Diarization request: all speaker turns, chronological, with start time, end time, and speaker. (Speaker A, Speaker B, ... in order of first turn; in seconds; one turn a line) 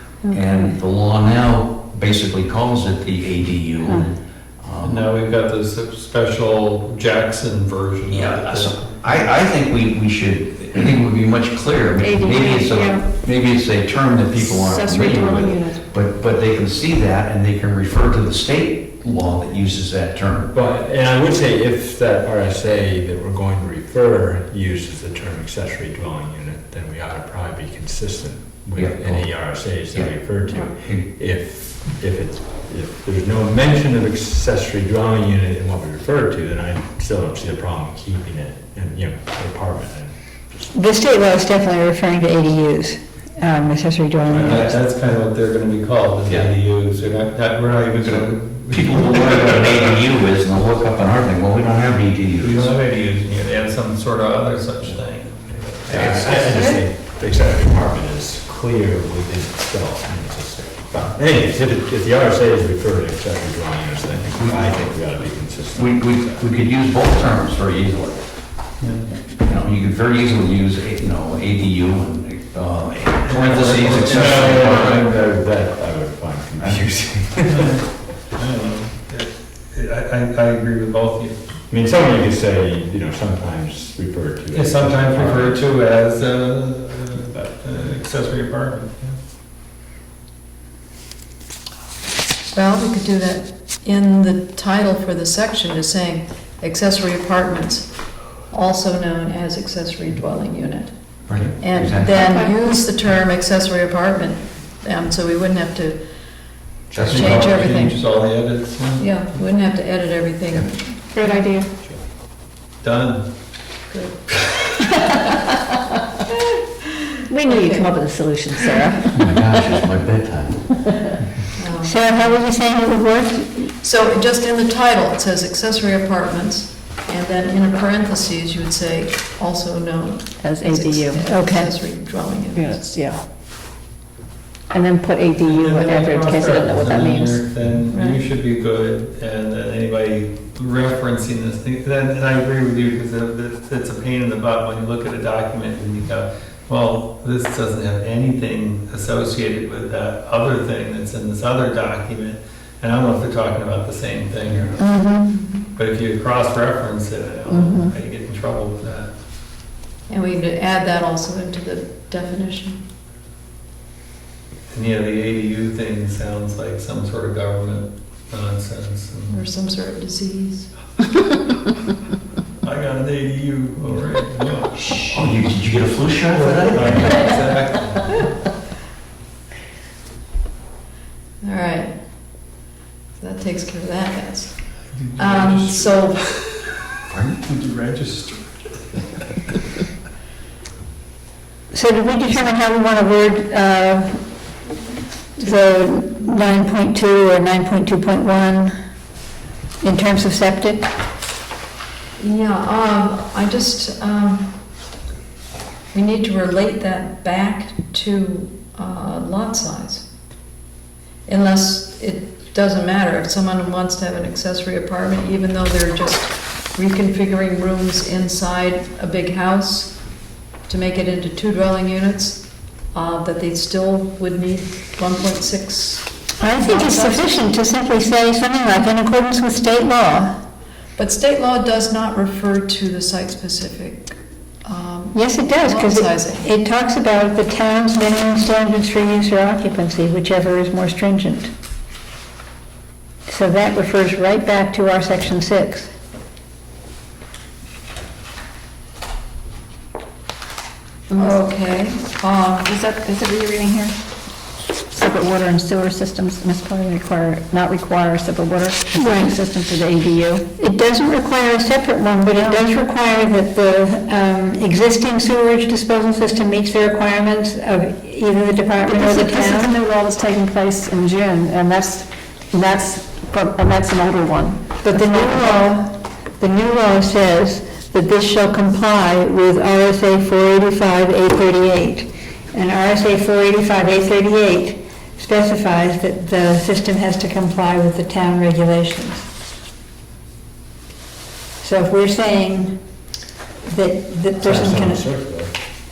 Speaker A: 0.3-5.1
Speaker B: 4.8-9.3
Speaker A: 8.1-20.5
Speaker C: 12.0-13.1
Speaker C: 14.4-15.8
Speaker D: 20.5-40.6
Speaker A: 28.8-29.3
Speaker E: 40.7-44.7
Speaker B: 44.3-50.1
Speaker A: 44.3-44.7
Speaker A: 48.0-52.7
Speaker B: 52.4-56.6
Speaker D: 55.9-66.5
Speaker A: 55.9-56.3
Speaker A: 64.4-65.0
Speaker A: 65.7-68.3
Speaker B: 68.8-69.1
Speaker A: 69.4-75.1
Speaker B: 73.2-75.1
Speaker D: 73.9-77.8
Speaker A: 76.6-76.9
Speaker B: 77.5-77.8
Speaker B: 78.3-81.4
Speaker D: 81.7-85.7
Speaker B: 84.5-89.2
Speaker D: 87.3-87.6
Speaker F: 92.5-98.0
Speaker F: 98.5-100.9
Speaker A: 101.3-102.1
Speaker F: 101.6-106.0
Speaker C: 102.1-102.5
Speaker A: 106.9-107.5
Speaker B: 107.0-109.1
Speaker F: 107.1-108.0
Speaker F: 109.0-111.4
Speaker C: 111.2-111.7
Speaker B: 112.8-113.2
Speaker F: 113.9-114.2
Speaker B: 114.5-114.8
Speaker C: 117.3-119.2
Speaker F: 117.4-118.0
Speaker A: 119.2-120.8
Speaker F: 121.5-122.4
Speaker E: 121.8-123.7
Speaker F: 123.8-132.8
Speaker C: 130.4-131.2
Speaker E: 131.2-131.7
Speaker C: 132.6-133.2
Speaker C: 134.7-135.6
Speaker E: 134.9-137.2
Speaker B: 135.4-154.9
Speaker C: 136.3-137.3
Speaker F: 137.9-138.2
Speaker E: 154.8-155.5
Speaker B: 155.8-159.1
Speaker E: 157.5-157.9
Speaker F: 160.1-162.8
Speaker B: 164.7-169.4
Speaker F: 169.3-170.7
Speaker B: 172.6-175.1
Speaker A: 175.0-177.4
Speaker B: 176.3-178.2
Speaker F: 181.4-181.9
Speaker F: 183.2-184.6
Speaker B: 184.9-185.9
Speaker F: 185.2-186.6
Speaker A: 187.1-187.4
Speaker B: 187.4-188.6
Speaker E: 191.7-194.2
Speaker E: 195.4-198.8
Speaker E: 199.8-200.9
Speaker F: 202.2-204.6
Speaker F: 205.9-210.1
Speaker F: 211.3-220.0
Speaker F: 220.7-227.5
Speaker E: 226.4-230.4
Speaker F: 231.0-236.6
Speaker E: 235.1-241.5
Speaker E: 243.3-245.9
Speaker F: 251.1-252.7
Speaker C: 252.7-253.9
Speaker C: 254.9-260.5
Speaker E: 259.0-259.3
Speaker E: 260.6-269.7
Speaker C: 262.2-262.7
Speaker C: 268.9-275.7
Speaker E: 274.8-289.3
Speaker E: 291.6-292.8
Speaker E: 293.7-295.0
Speaker D: 294.4-295.5